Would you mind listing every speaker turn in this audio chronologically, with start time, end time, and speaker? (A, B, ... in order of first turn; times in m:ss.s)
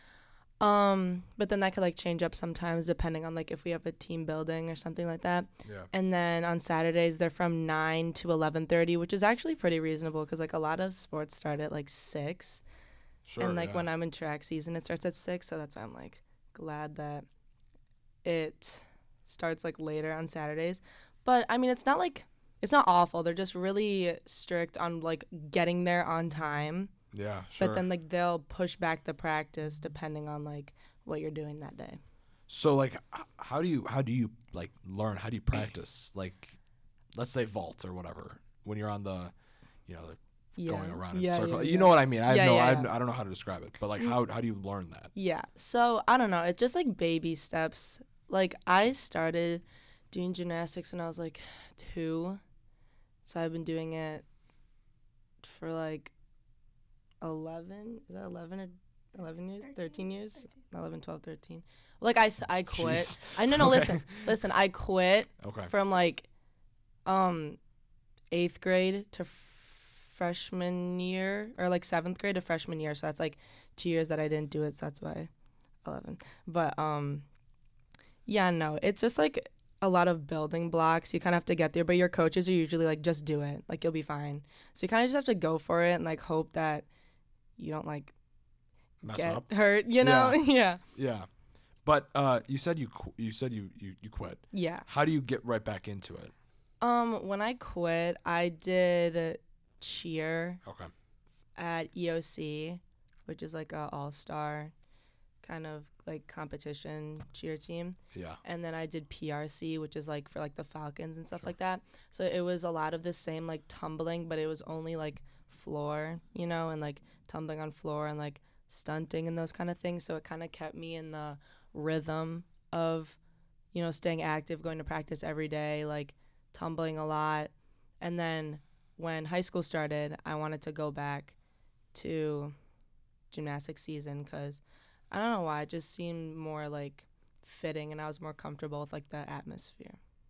0:00.6-0:12.6 A
0:13.3-0:13.9 B
0:13.4-0:17.3 A
0:18.2-0:26.9 A
0:27.1-0:27.9 B
0:27.6-0:32.0 A
0:32.5-0:36.6 B
0:37.1-0:39.3 B
0:39.9-0:45.1 B
0:40.6-0:42.9 A
0:45.2-0:52.4 A
0:53.2-0:54.2 A
0:55.4-0:56.1 A
0:57.2-1:06.3 A
1:02.7-1:04.4 B
1:05.4-1:05.7 B
1:07.1-1:07.6 A
1:08.3-1:15.3 A
1:15.8-1:17.3 A
1:18.3-1:26.9 A
1:27.6-1:28.1 A
1:29.0-1:30.4 B
1:29.1-1:30.8 A
1:30.9-1:31.3 B
1:31.8-1:36.3 B
1:34.5-1:34.9 A
1:36.8-1:40.6 A
1:40.6-1:40.9 B
1:41.6-1:44.7 A
1:45.4-2:03.2 A
1:48.1-1:48.4 B
2:03.7-2:11.4 A
2:11.9-2:12.5 A
2:13.3-2:20.0 A